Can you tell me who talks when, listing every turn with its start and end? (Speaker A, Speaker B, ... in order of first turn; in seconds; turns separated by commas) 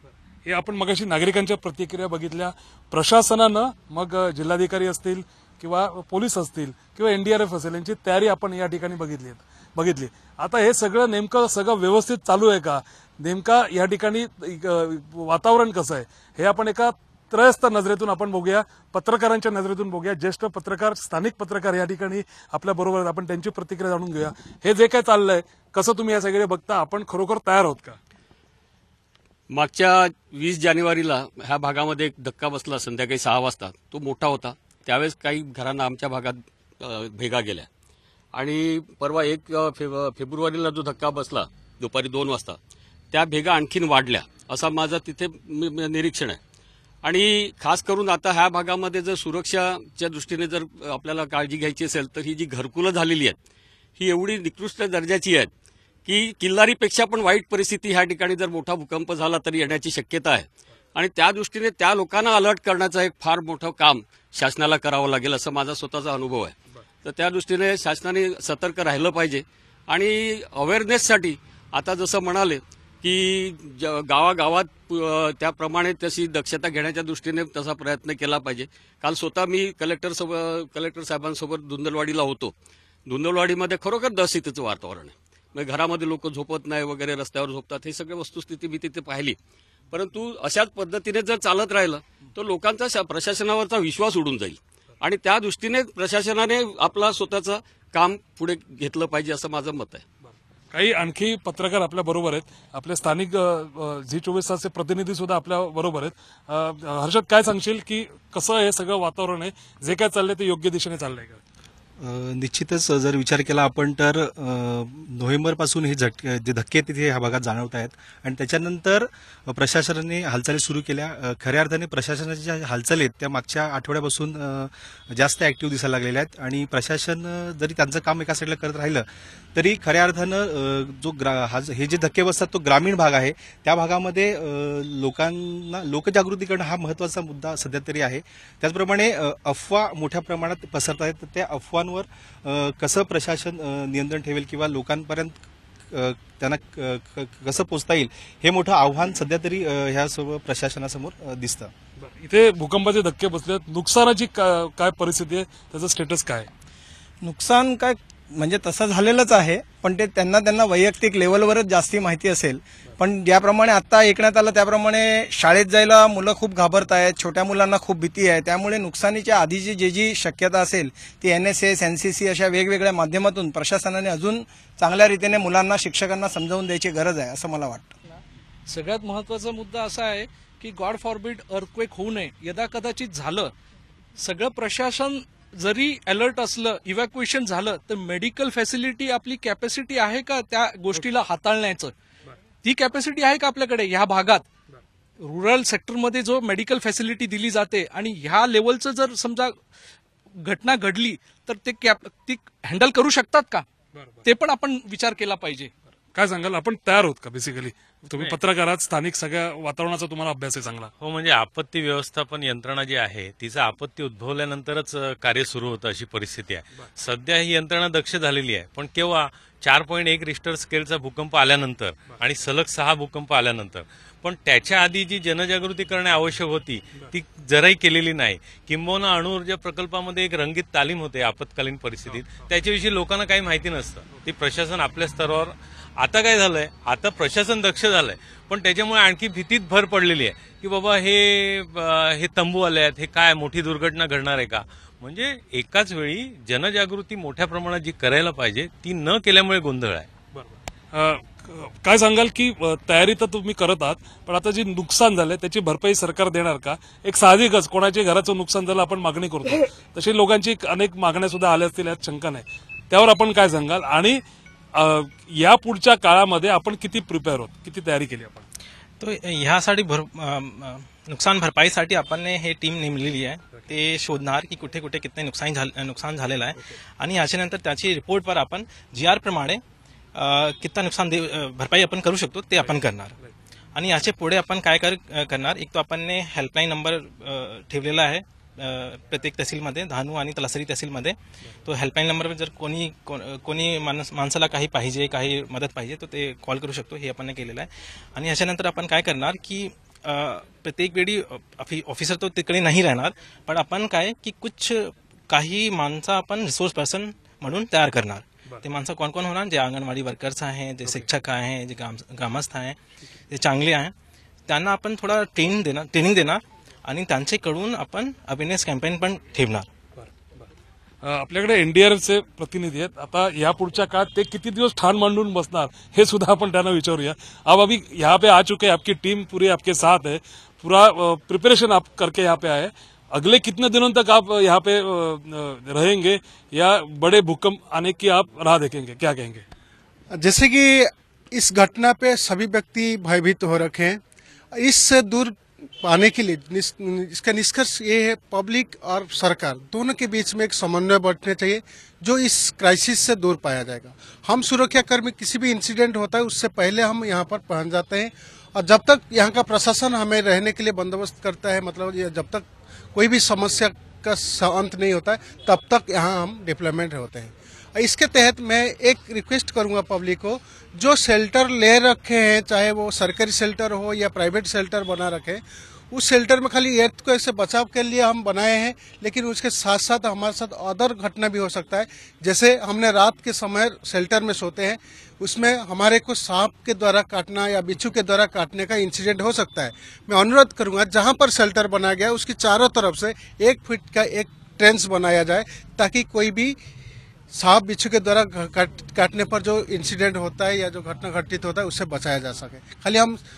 Speaker A: 0.5-28.0, Speaker B: 29.5-37.7, Speaker B: 38.3-42.6, Speaker B: 43.1-46.4, Speaker B: 47.0-53.4, Speaker B: 54.0-55.5, Speaker B: 56.0-82.5, Speaker B: 83.0-89.3, Speaker B: 89.9-100.0, Speaker A: 100.7-111.4, Speaker C: 112.0-151.7, Speaker A: 152.0-156.5, Speaker D: 157.2-177.9, Speaker E: 178.7-183.5, Speaker E: 184.2-191.9, Speaker E: 192.6-194.4, Speaker E: 195.2-199.6, Speaker E: 200.4-203.7, Speaker A: 203.9-204.2, Speaker E: 204.2-205.7, Speaker A: 206.1-210.9, Speaker F: 211.0-250.1, Speaker A: 250.3-264.2, Speaker A: 264.8-268.4, Speaker G: 269.0-279.6, Speaker G: 280.1-283.1, Speaker A: 282.7-283.3, Speaker G: 283.7-313.9, Speaker G: 314.5-319.7, Speaker A: 321.0-339.4, Speaker H: 340.1-344.0, Speaker H: 344.5-396.6, Speaker H: 397.3-403.2